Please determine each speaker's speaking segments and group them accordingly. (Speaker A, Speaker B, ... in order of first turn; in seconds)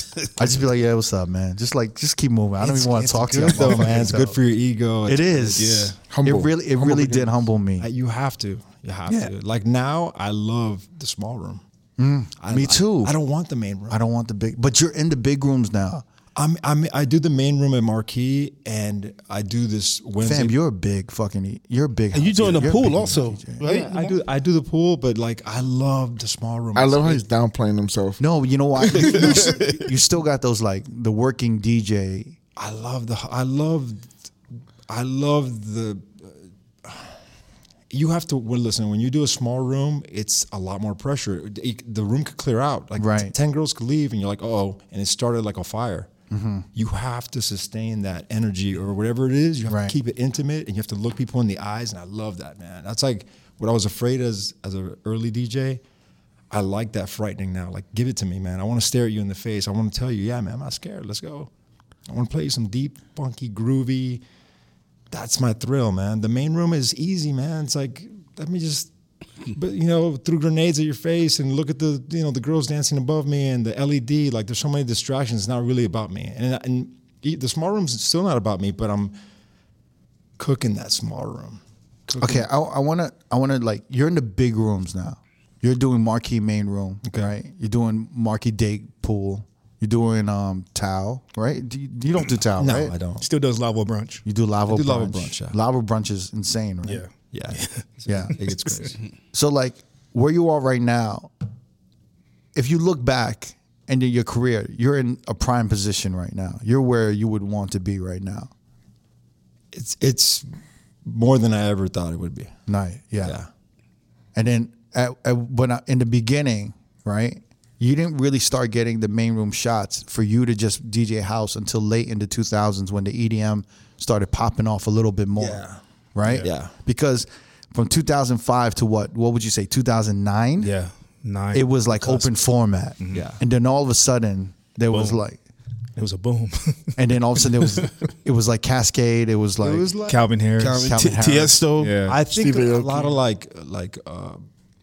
Speaker A: 0.3-4.4, 5.0-7.9, 12.0-13.1, 13.9-16.0, 20.2-23.6, 28.2-32.4, 43.0-43.3, 46.3-46.7, 49.7-49.9, 82.2-92.9, 94.2-97.0, 98.1-98.3, 99.3-101.3, 102.5-108.5, 112.7-113.4, 114.3-125.6, 126.1-130.7, 131.5-135.4, 136.9-139.9, 140.6-141.6
Speaker B: 2.7-4.0, 5.5-6.0, 23.7-24.1, 93.2-94.2, 96.8-97.8, 126.2-126.5, 130.6-132.3, 133.0-133.2, 134.9-135.2, 136.0-136.9, 140.1-141.0, 141.8-142.2
Speaker C: 3.4-5.9, 7.8-11.6, 12.4-14.0, 16.3-20.6, 23.6-27.2, 32.5-34.1, 34.9-37.2, 37.9-46.1, 46.7-55.8, 56.5-61.5, 62.1-64.2, 65.1-68.9, 69.4-79.1, 80.4-82.4, 87.0-87.3, 92.6-93.2, 94.7-95.6, 97.3-99.0, 109.7-110.5, 111.0-112.5, 113.2-113.5, 125.3-125.8, 126.4-126.7, 133.1-133.4, 139.6-140.2, 142.0-144.4
Speaker D: 6.1-7.4, 26.7-28.2, 29.0-29.3, 142.3-143.2
Speaker E: 22.1-24.0, 140.6-142.0